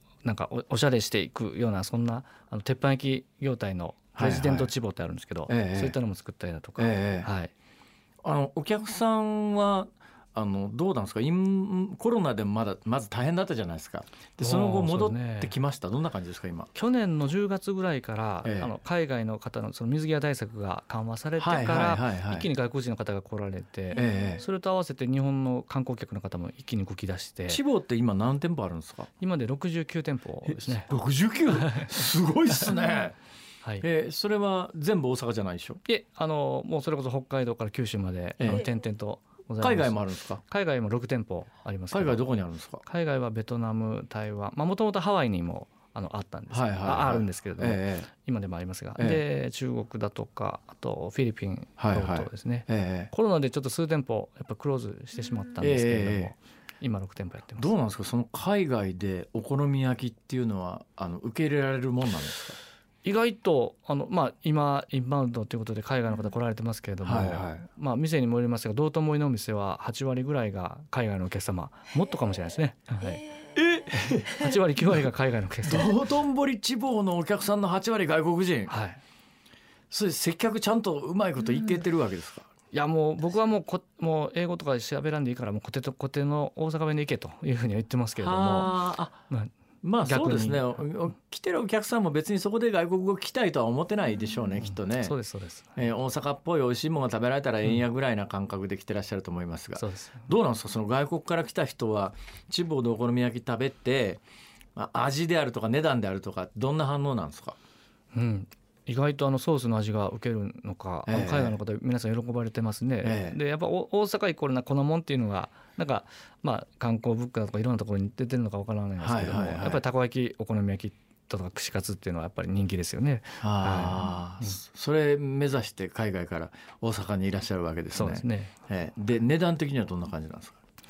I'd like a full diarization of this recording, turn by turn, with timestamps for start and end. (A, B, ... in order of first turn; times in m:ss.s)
0:00.2-0:07.5 A
0:04.1-0:04.7 B
0:05.5-0:06.0 B
0:06.8-0:07.3 B
0:08.2-0:16.7 B
0:14.4-0:15.5 A
0:16.7-0:27.6 A
0:18.4-0:18.7 B
0:21.4-0:22.5 B
0:23.9-0:24.4 B
0:27.5-0:29.1 B
0:29.2-0:30.9 A
0:30.4-0:33.2 B
0:31.5-0:31.9 A
0:33.8-0:35.8 B
0:35.8-0:42.2 A
0:38.4-0:38.7 B
0:39.6-0:40.4 B
0:41.9-0:42.8 B
0:42.8-0:57.7 A
0:46.5-0:48.1 B
0:51.8-0:53.1 B
0:55.6-0:56.3 B
0:57.6-1:02.6 B
1:03.0-1:13.2 A
1:07.0-1:07.6 B
1:13.5-1:15.0 B
1:14.0-1:16.0 A
1:15.6-1:18.7 B
1:18.7-1:19.0 A
1:19.9-1:22.5 B
1:22.7-1:28.8 A
1:28.2-1:29.2 B
1:29.8-1:35.1 B
1:30.0-1:30.8 A
1:34.8-1:35.7 A
1:35.8-1:44.2 B
1:39.8-1:40.3 A
1:44.8-1:47.6 B
1:48.1-2:04.5 A
1:51.1-1:51.6 B
1:53.0-1:53.4 B
1:59.0-1:59.8 B
2:03.4-2:10.6 B
2:07.9-2:08.5 A